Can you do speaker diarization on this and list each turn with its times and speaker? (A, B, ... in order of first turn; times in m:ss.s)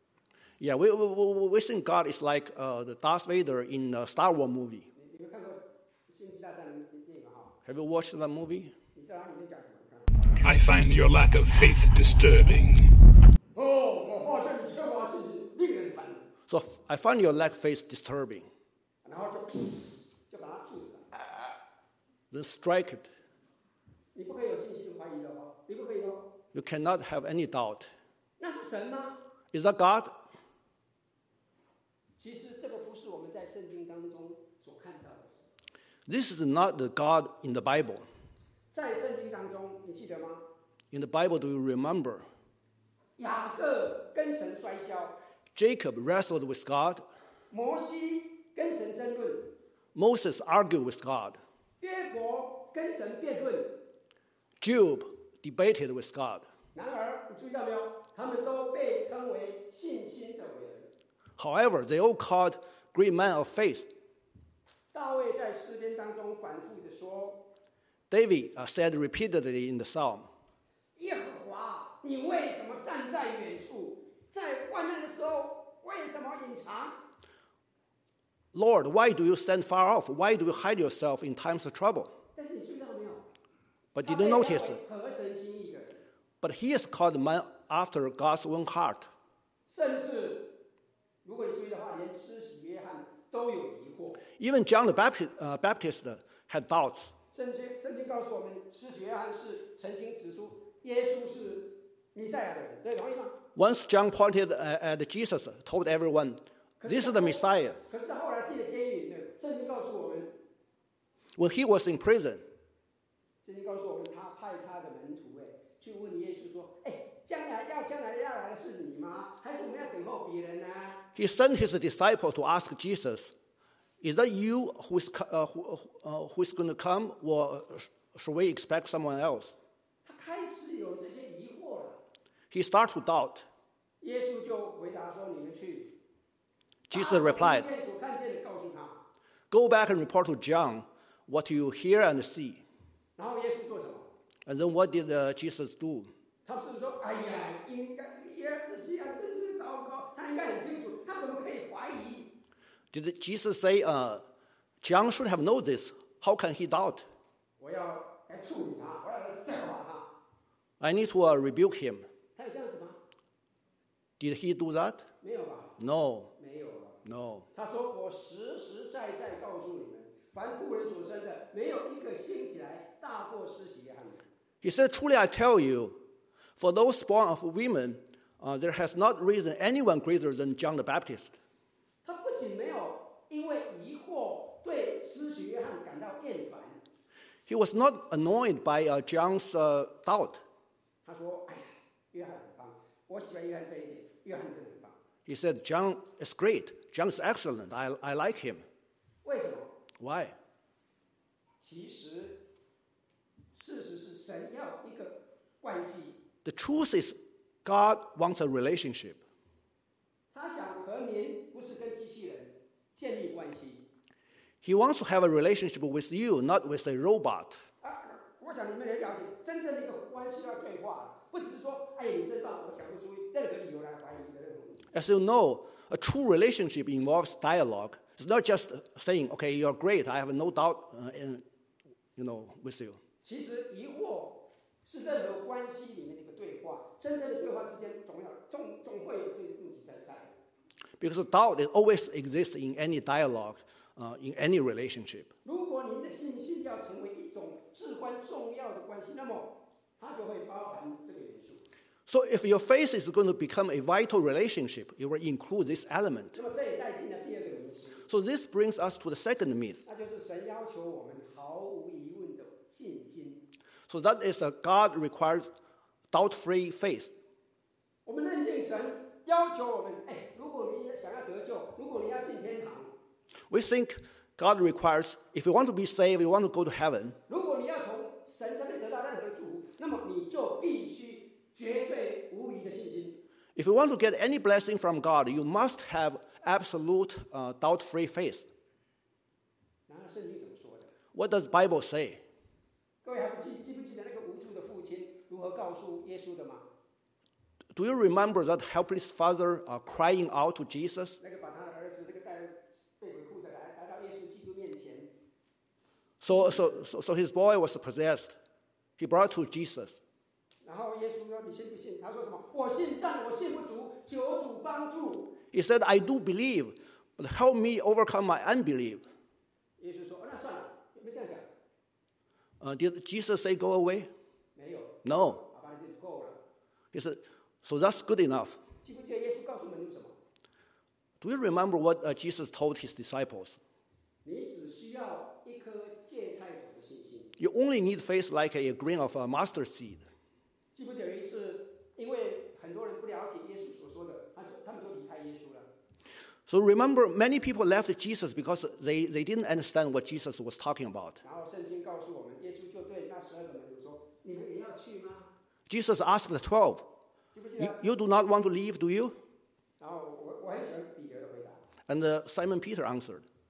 0:00.6-0:04.9 A
0:04.9-0:07.5 B
0:07.6-0:08.7 A
0:08.9-0:10.1 B
0:10.4-0:12.9 C
0:13.6-0:16.2 B
0:16.5-0:18.5 A
0:19.0-0:21.1 B
0:22.3-0:23.1 A
0:24.1-0:26.3 B
0:26.5-0:27.9 A
0:28.4-0:29.2 B
0:29.5-0:30.2 A
0:32.2-0:35.5 B
0:36.1-0:38.0 A
0:38.7-0:40.4 B
0:40.9-0:42.3 A
0:43.2-0:45.2 B
0:45.5-0:47.0 A
0:47.5-0:49.5 B
0:49.9-0:51.4 A
0:51.8-0:53.7 B
0:54.6-0:56.5 A
0:56.7-1:00.9 B
1:01.4-1:03.9 A
1:04.9-1:07.4 B
1:08.1-1:10.3 A
1:11.0-1:17.0 B
1:18.5-1:22.1 A
1:22.4-1:23.3 B
1:23.9-1:24.8 A
1:24.0-1:26.0 B
1:26.4-1:29.1 A
1:29.7-1:30.5 B
1:31.2-1:34.2 B
1:34.4-1:37.1 A
1:37.3-1:43.3 B
1:43.5-1:47.8 A
1:46.8-1:50.3 B
1:51.4-1:52.4 A
1:53.4-2:01.0 B
2:01.1-2:03.3 A
2:04.0-2:09.5 A
2:10.0-2:12.0 B
2:12.5-2:13.4 A
2:14.0-2:15.9 B
2:16.9-2:17.6 A
2:16.9-2:19.0 B
2:19.5-2:22.6 A
2:23.2-2:24.1 B
2:24.4-2:26.1 A
2:26.4-2:32.3 B
2:32.9-2:34.2 A
2:34.8-2:37.0 A
2:37.6-2:40.1 B
2:40.8-2:42.0 A
2:42.4-2:43.0 B
2:44.2-2:45.1 A
2:45.2-2:45.8 B
2:45.8-2:46.3 A
2:46.4-2:47.0 B
2:47.0-2:47.5 A
2:47.5-2:54.2 B
2:54.6-2:56.0 A
2:56.6-3:01.4 A
3:02.0-3:06.8 B
3:07.5-3:10.4 A
3:11.0-3:15.0 B
3:15.2-3:18.6 A
3:19.2-3:19.7 B
3:20.0-3:20.3 A
3:21.6-3:22.4 B
3:23.5-3:26.2 B
3:26.4-3:29.2 A
3:30.3-3:33.8 B
3:34.6-3:37.6 A
3:37.8-3:44.8 B
3:44.9-3:51.4 A
3:52.2-3:53.0 A
3:53.2-4:00.3 B
4:01.0-4:05.3 A
4:05.4-4:11.6 B
4:12.1-4:16.4 A
4:16.3-4:18.0 B
4:18.0-4:19.8 A
4:19.8-4:23.4 B
4:23.9-4:25.5 A
4:26.1-4:27.1 A
4:28.0-4:32.9 B
4:33.5-4:37.2 A
4:37.3-4:43.2 B
4:43.6-4:48.5 A
4:49.9-4:50.9 B
4:51.1-4:52.2 A
4:53.0-4:56.6 B
4:57.7-5:01.2 A
5:01.2-5:05.1 B
5:06.2-5:08.3 A
5:09.0-5:10.0 A
5:10.6-5:15.3 B
5:15.5-5:19.0 A
5:19.8-5:21.4 B
5:22.6-5:24.1 A
5:24.6-5:26.4 B
5:25.0-5:25.4 A
5:26.9-5:28.6 A
5:28.8-5:30.1 B
5:31.2-5:33.6 A
5:34.2-5:37.3 B
5:37.4-5:40.0 A
5:40.7-5:45.7 B
5:46.5-5:51.2 A
5:51.2-5:55.3 B
5:55.7-5:56.9 A
5:57.3-5:57.8 B
5:57.6-5:59.1 A
5:59.8-6:01.6 B
6:01.9-6:03.2 A